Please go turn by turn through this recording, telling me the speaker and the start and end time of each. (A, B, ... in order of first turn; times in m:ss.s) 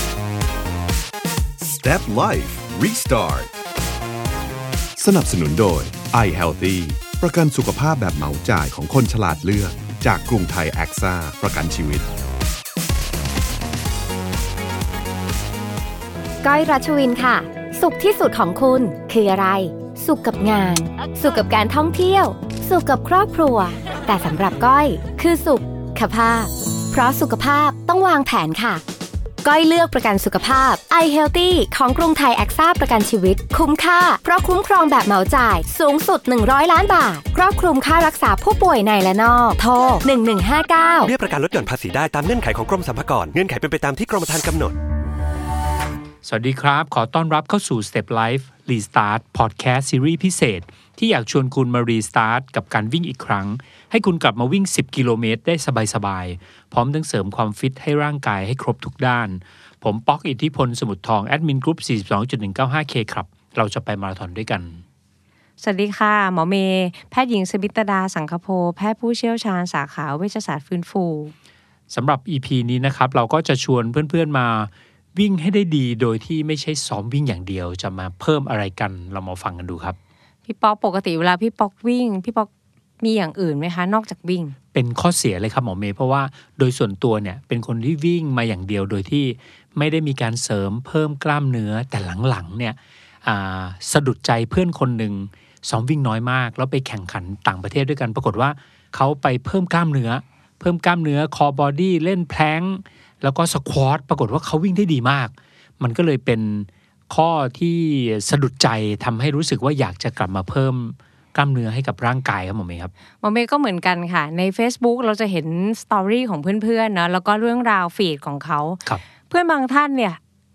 0:01.6-0:03.5 A
0:05.0-0:12.1 A
0:16.4-0:28.8 B
0:29.4-0:41.1 B
0:41.0-0:44.8 C
0:46.2-1:04.8 D
1:05.6-1:11.3 E
1:11.9-1:20.0 D
1:20.5-1:22.5 E
1:23.0-1:24.6 E
1:24.7-1:52.9 D
1:53.2-2:00.2 E